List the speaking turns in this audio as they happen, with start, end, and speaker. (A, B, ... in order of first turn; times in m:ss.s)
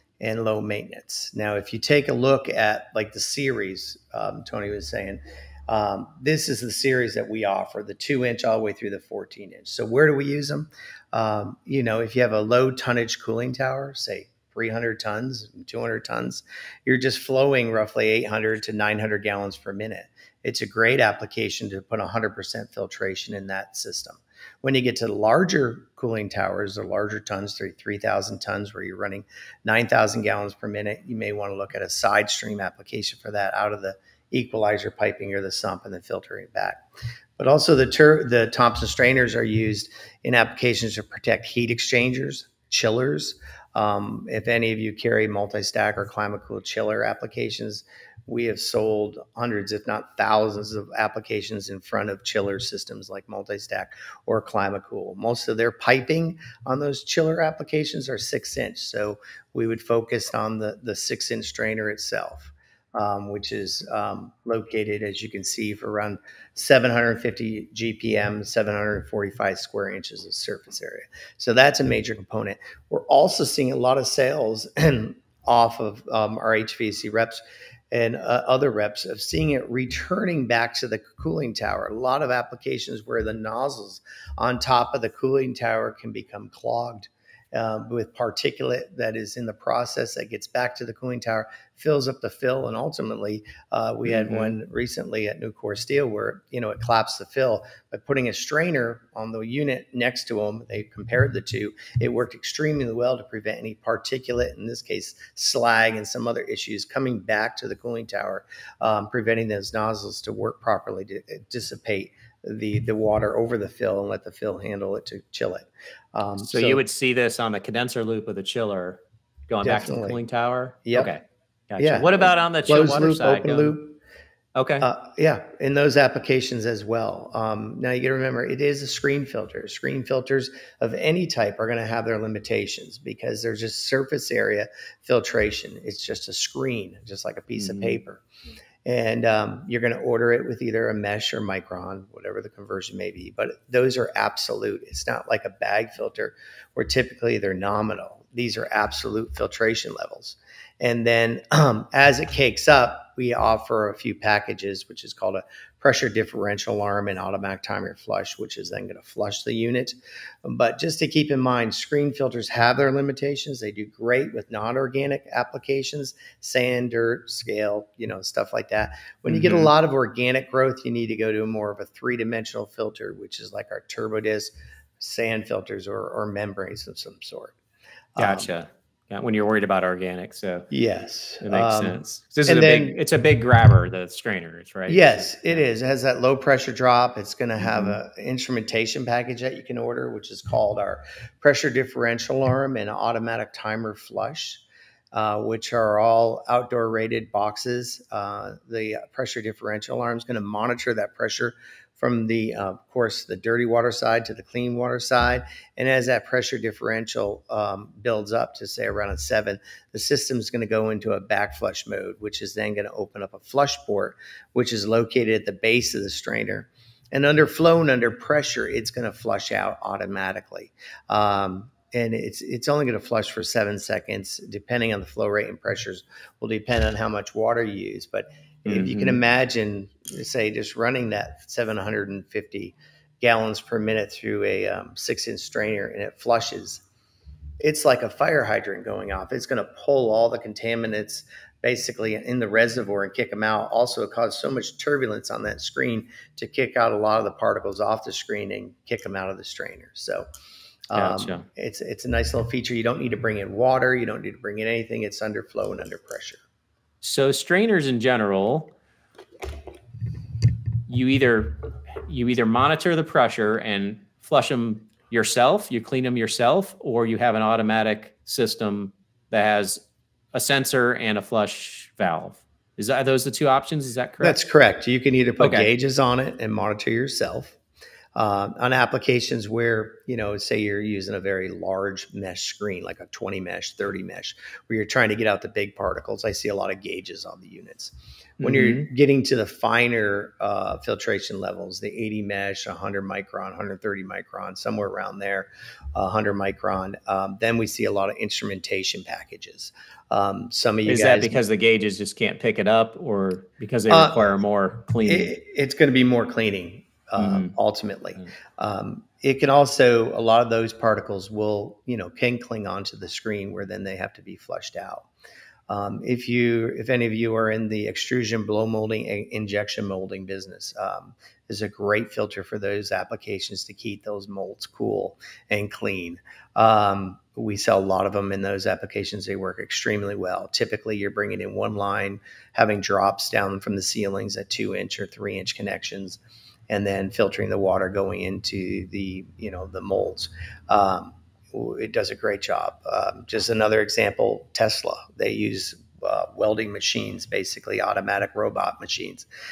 0:00.2-0:36.8 A
0:37.4-1:56.8 A
1:34.1-1:34.6 B
1:56.4-2:03.8 B
1:59.6-2:00.2 A
2:00.9-2:01.1 A
2:01.8-2:04.0 A
2:04.6-2:04.9 B
2:04.8-2:18.2 A
2:17.6-2:18.0 B
2:18.8-2:57.6 A
2:49.3-2:49.7 B
2:58.2-2:58.5 A
2:58.2-3:00.7 B
3:00.7-3:03.0 A
3:01.4-3:05.6 B
3:04.9-3:56.8 A
3:07.6-3:08.0 B
3:48.7-3:49.2 B
3:57.6-4:10.3 A
4:10.9-4:16.4 A
4:11.0-4:11.5 B
4:17.0-4:18.7 B
4:20.9-4:34.4 B
4:34.2-4:37.6 A
4:35.4-4:35.7 B
4:38.2-5:01.4 A
4:48.4-4:48.9 B
5:00.9-5:05.4 B
5:03.9-5:04.3 A
5:05.0-5:15.1 A
5:07.2-5:07.6 B
5:15.7-5:49.3 A